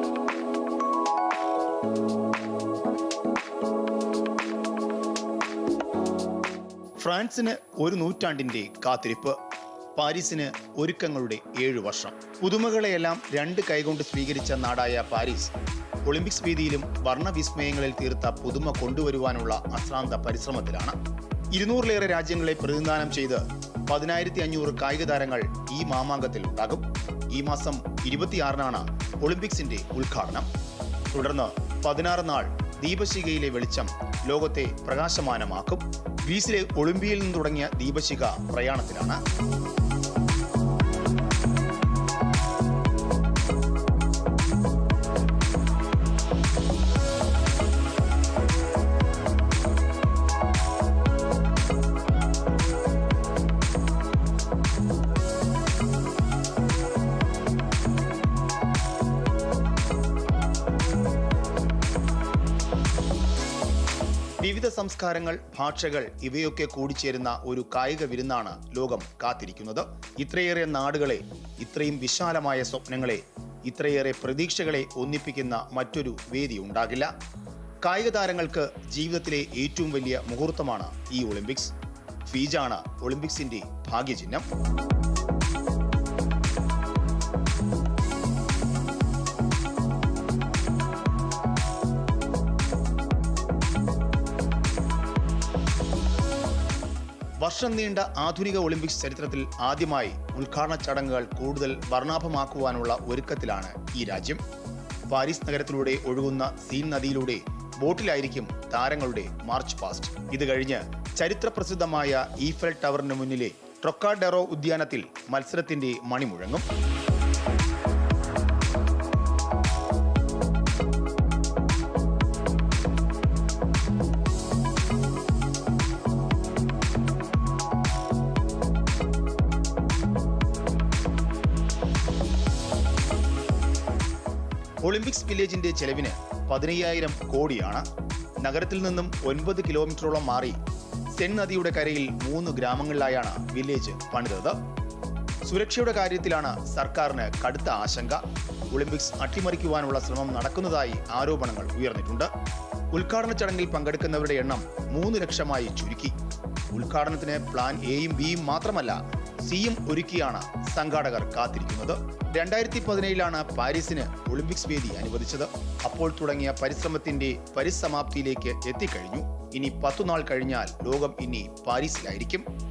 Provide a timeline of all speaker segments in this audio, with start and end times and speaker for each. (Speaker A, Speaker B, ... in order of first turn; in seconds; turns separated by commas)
Speaker A: 7.0-9.4, Speaker A: 10.0-15.5, Speaker A: 16.1-21.0, Speaker A: 21.5-30.5, Speaker A: 31.1-39.2, Speaker A: 64.4-77.1, Speaker A: 77.8-81.7, Speaker A: 82.3-84.5, Speaker A: 97.4-104.4, Speaker A: 105.1-116.7, Speaker A: 134.8-137.9, Speaker A: 138.4-140.6, Speaker A: 141.2-144.6, Speaker A: 145.4-152.3, Speaker A: 152.9-156.2, Speaker A: 156.7-172.5